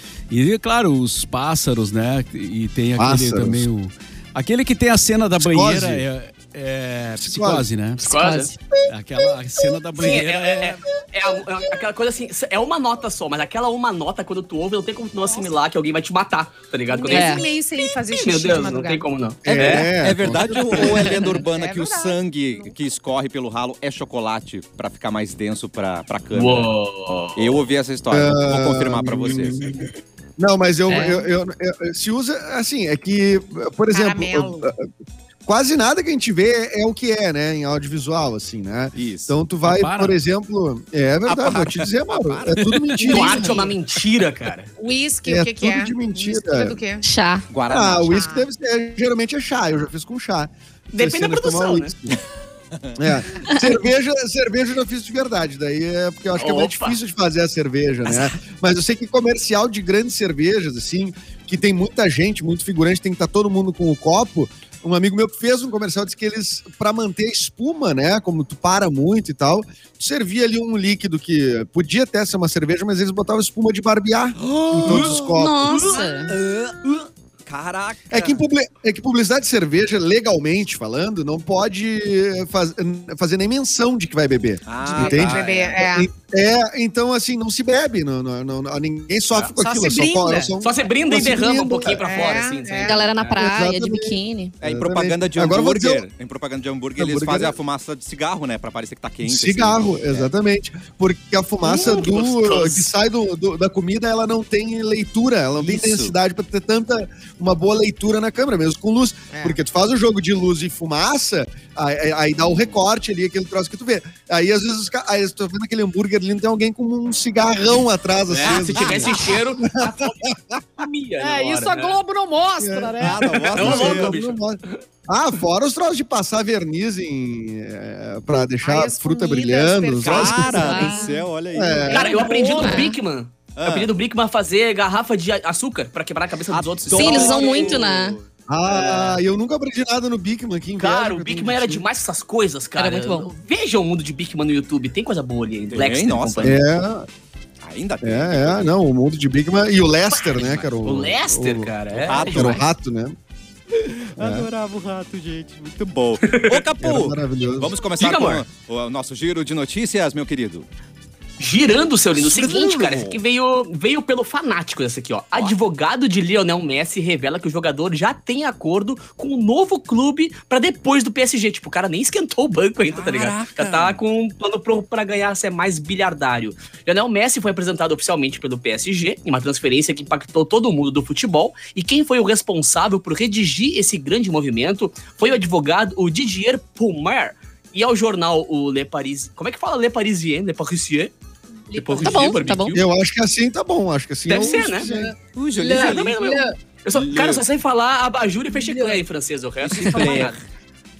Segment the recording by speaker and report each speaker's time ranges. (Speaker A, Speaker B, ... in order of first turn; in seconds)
Speaker A: 0.3-8.0, 8.9-10.8, 39.6-40.2, 42.6-43.1
Speaker B: 3.0-3.7, 5.4-6.0, 7.2-7.6, 8.7-9.3, 19.4-21.1, 28.1-29.8, 30.4-34.9, 35.5-43.6, 45.2-46.8, 47.7-52.2, 53.0-75.8, 78.1-92.0, 93.3-96.0, 97.0-97.5, 99.2-120.6, 122.6-130.6, 131.5-132.2, 138.5-141.8, 146.4-147.1, 148.0-151.7, 152.2-153.1, 154.2-154.5, 156.8-157.7, 192.7-195.1
Speaker C: 8.0-8.6, 17.1-17.5, 30.9-31.2, 47.0-47.5, 75.3-76.3, 92.8-94.5, 130.5-131.0, 132.5-132.9, 136.9-138.2, 142.8-143.3, 192.0-192.7
Speaker D: 8.1-8.5, 10.0-19.9, 20.7-21.1, 26.3-27.6, 43.0-44.7, 50.9-51.9, 56.3-57.0, 74.8-76.0, 85.0-85.7, 90.6-93.4, 101.6-102.9, 118.3-122.0, 123.5-124.8, 131.9-137.9, 138.7-139.2, 140.8-146.6, 150.1-152.6, 156.2-156.6, 158.0-158.4, 161.4-191.1, 191.7-192.8, 194.3-194.9, 195.6-200.4
Speaker E: 15.2-15.5, 16.9-19.0, 20.8-22.7, 33.9-34.7, 43.0-43.7, 44.8-47.0, 48.0-48.5, 75.9-76.2, 84.8-86.1, 89.6-90.5, 92.0-93.1, 109.3-109.6, 121.2-123.7, 128.4-131.2, 131.8-132.9, 191.7-192.4, 194.3-196.5, 198.5-199.0
Speaker F: 19.6-26.7, 27.4-29.8, 38.9-39.4, 41.2-42.7, 47.5-48.2, 52.7-53.0, 74.4-75.4, 76.3-78.4, 84.7-85.7, 94.6-100.3, 105.6-106.1, 118.3-119.1, 123.0-124.1, 130.0-132.2, 133.6-133.9, 136.5-138.2, 138.8-139.1, 145.7-146.7, 147.6-148.7, 150.3-150.7, 151.9-152.7, 153.8-160.7, 162.1-163.2, 172.9-174.0, 195.3-196.2, 196.9-197.4, 199.6-200.4